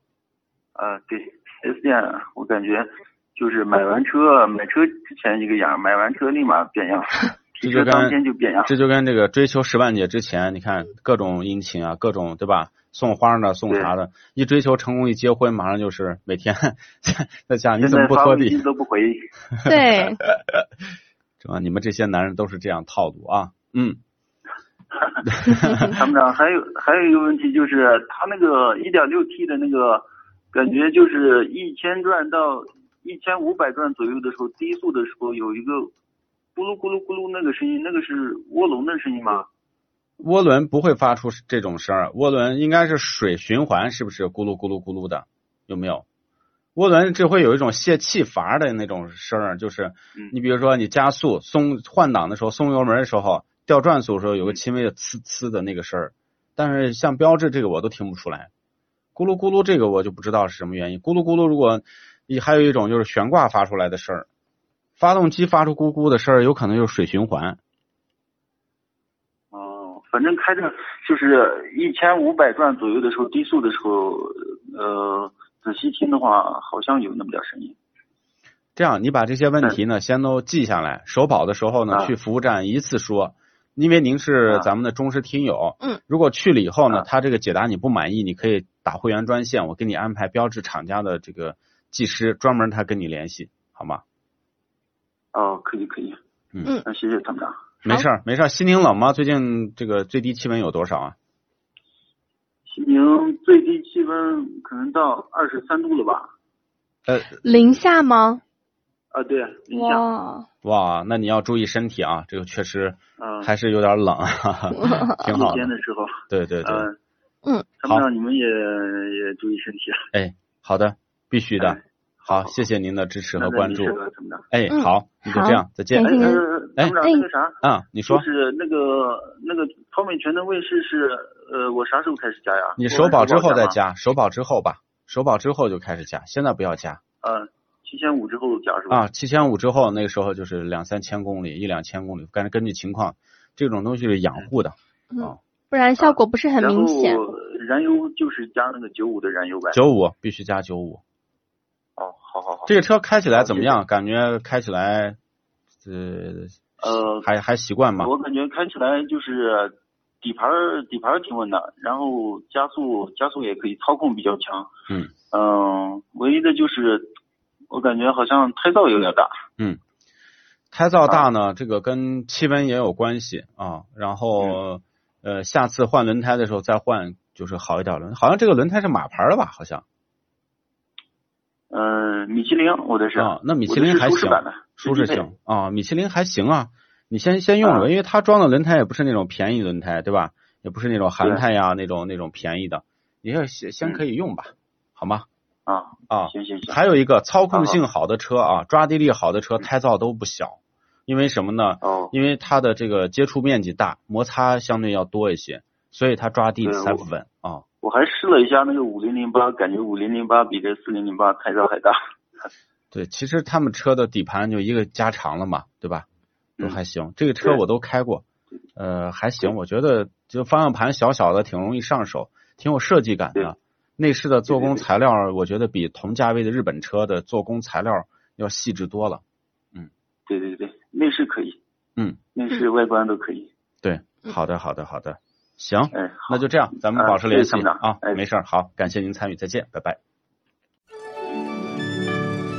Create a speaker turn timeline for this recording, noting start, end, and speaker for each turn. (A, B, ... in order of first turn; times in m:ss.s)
0:00.7-0:08.7 A
0:07.6-0:18.7 B
0:17.8-0:19.3 A
0:19.6-0:20.2 C
0:19.6-0:20.5 B
0:21.4-0:24.0 B
0:25.0-0:35.9 A
0:25.4-0:25.9 B
0:36.5-0:39.5 A
0:40.2-0:46.0 B
0:46.8-0:58.5 B
0:59.2-1:04.3 B
1:05.0-1:07.6 B
1:09.5-1:17.8 A
1:18.8-1:34.0 B
1:35.3-1:36.2 A
1:36.8-1:37.6 A
1:37.8-1:41.2 B
1:42.7-1:46.3 A
1:47.0-1:47.4 B
1:47.4-1:48.4 C
1:49.1-1:50.1 A
1:49.7-1:50.5 C
1:50.6-1:55.7 B
1:53.2-1:53.5 A
1:54.8-1:55.2 C
1:55.3-1:57.0 A
1:56.3-1:56.9 B
1:57.8-2:00.0 A
2:00.1-2:04.0 B
2:01.6-2:02.6 A
2:03.4-2:04.4 A
2:04.5-2:07.0 B
2:04.7-2:06.4 C
2:06.0-2:13.8 A
2:07.6-2:08.2 B
2:12.8-2:17.0 B
2:17.2-2:19.0 A
2:18.9-2:25.4 B
2:25.1-2:27.2 C
2:26.0-2:29.8 A
2:29.7-2:31.0 B
2:32.0-2:32.8 A
2:32.7-2:35.2 B
2:33.3-2:33.8 A
2:35.8-2:38.1 B
2:36.8-2:37.3 A
2:38.0-2:44.7 A
2:45.3-2:47.1 A
2:47.7-2:49.3 A
2:50.7-2:59.8 B
3:01.7-3:05.3 A
3:03.2-3:15.2 B
3:07.6-3:07.9 A
3:15.7-3:16.8 A
3:16.1-3:27.6 B
3:17.5-3:17.8 A
3:21.8-3:22.1 A
3:26.6-3:27.1 A
3:27.8-3:32.0 A
3:32.9-3:36.0 B
3:36.6-3:38.2 B
3:38.8-3:49.2 B
3:44.5-3:44.8 A
3:50.3-3:51.6 A
3:52.3-3:53.5 A
3:53.8-4:00.0 B
3:55.9-3:58.2 A